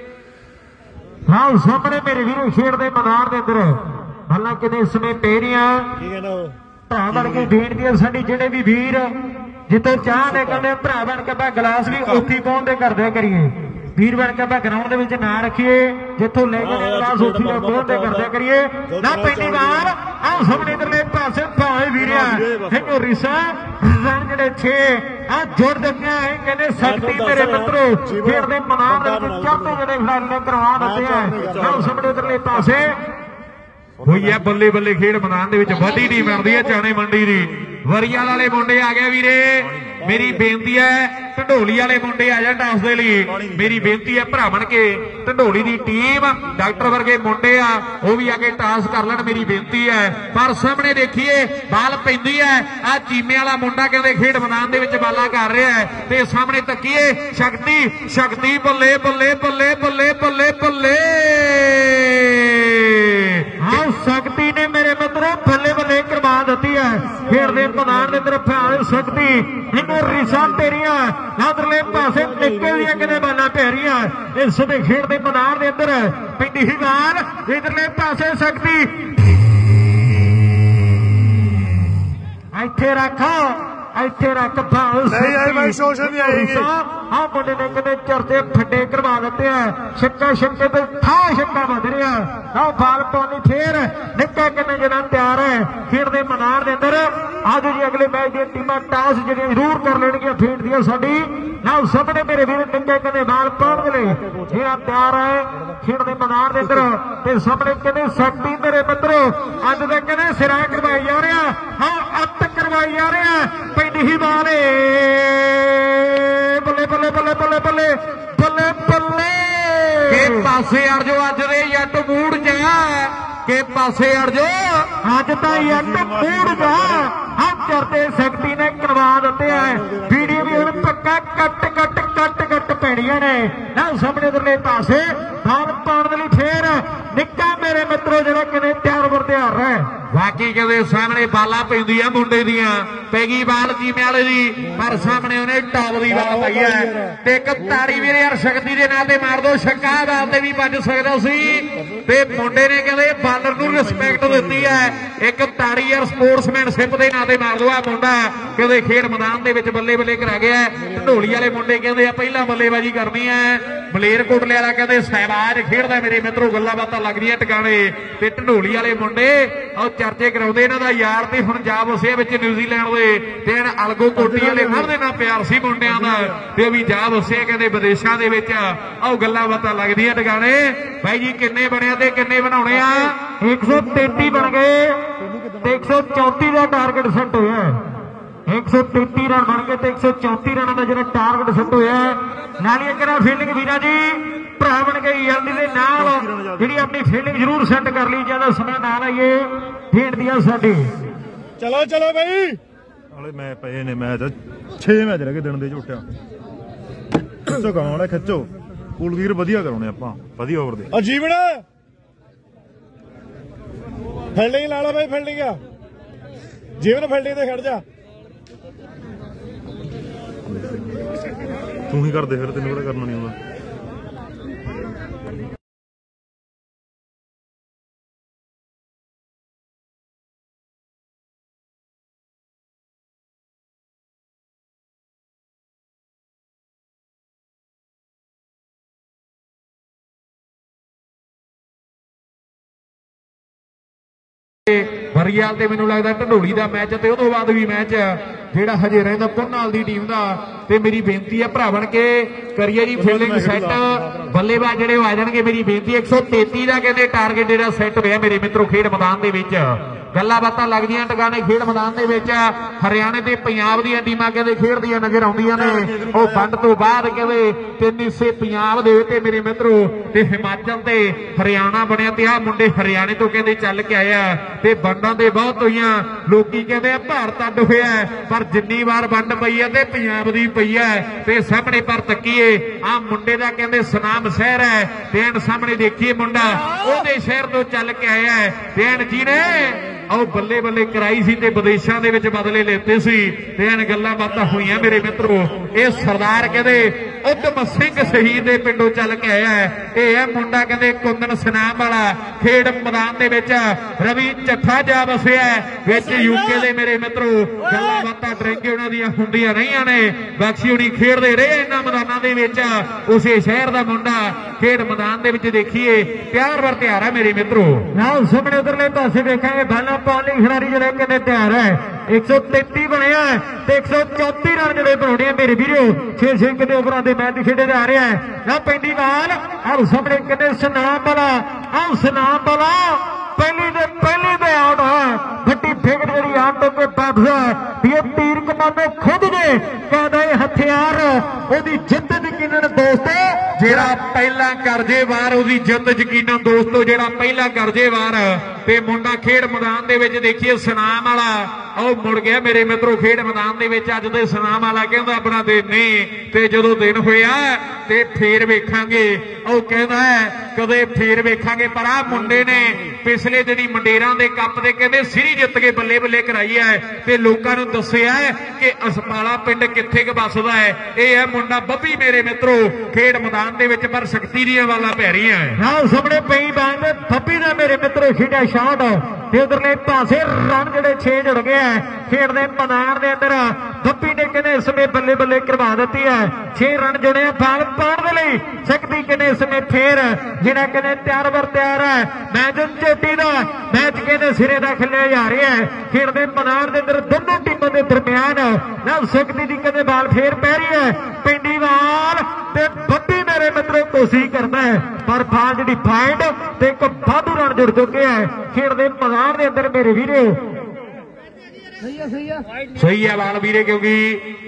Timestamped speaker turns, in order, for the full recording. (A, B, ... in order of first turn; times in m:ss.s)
0:01.3-0:05.9 A
0:06.0-0:06.6 B
0:06.9-0:09.1 A
0:07.1-0:07.5 C
0:09.7-0:33.0 A
0:10.2-0:10.6 B
0:16.6-0:18.3 B
0:18.9-0:19.9 B
0:22.0-0:23.0 C
0:26.8-0:29.7 B
0:30.8-0:32.8 B
0:31.3-0:32.1 C
0:34.0-0:34.4 C
0:34.0-1:03.8 D
0:39.6-0:40.3 C
0:43.3-0:43.9 C
1:03.6-1:19.5 A
1:07.3-1:08.0 B
1:12.1-1:12.9 B
1:22.5-2:00.5 A
1:25.0-1:26.7 C
1:44.2-1:44.6 B
2:00.1-2:04.9 D
2:05.0-2:19.9 A
2:05.5-2:07.1 C
2:09.9-2:10.5 B
2:10.1-2:10.4 C
2:20.1-3:03.2 D
2:26.2-2:26.9 B
2:33.6-2:34.9 C
2:55.9-2:56.3 C
3:03.4-3:07.8 A
3:03.7-3:04.5 B
3:05.2-3:05.6 B
3:08.5-3:20.9 A
3:15.9-3:16.9 C
3:21.6-3:22.6 B
3:23.1-3:26.0 C
3:27.4-3:30.9 C
3:30.9-3:31.6 B
3:34.3-3:35.6 B
3:36.8-3:37.8 B
3:41.9-3:43.4 C
4:04.7-5:17.9 D
4:13.0-4:14.1 C
4:25.5-4:26.5 C
5:17.9-5:43.9 A
5:43.6-6:15.6 D
6:15.6-6:50.4 A
6:52.7-6:54.3 D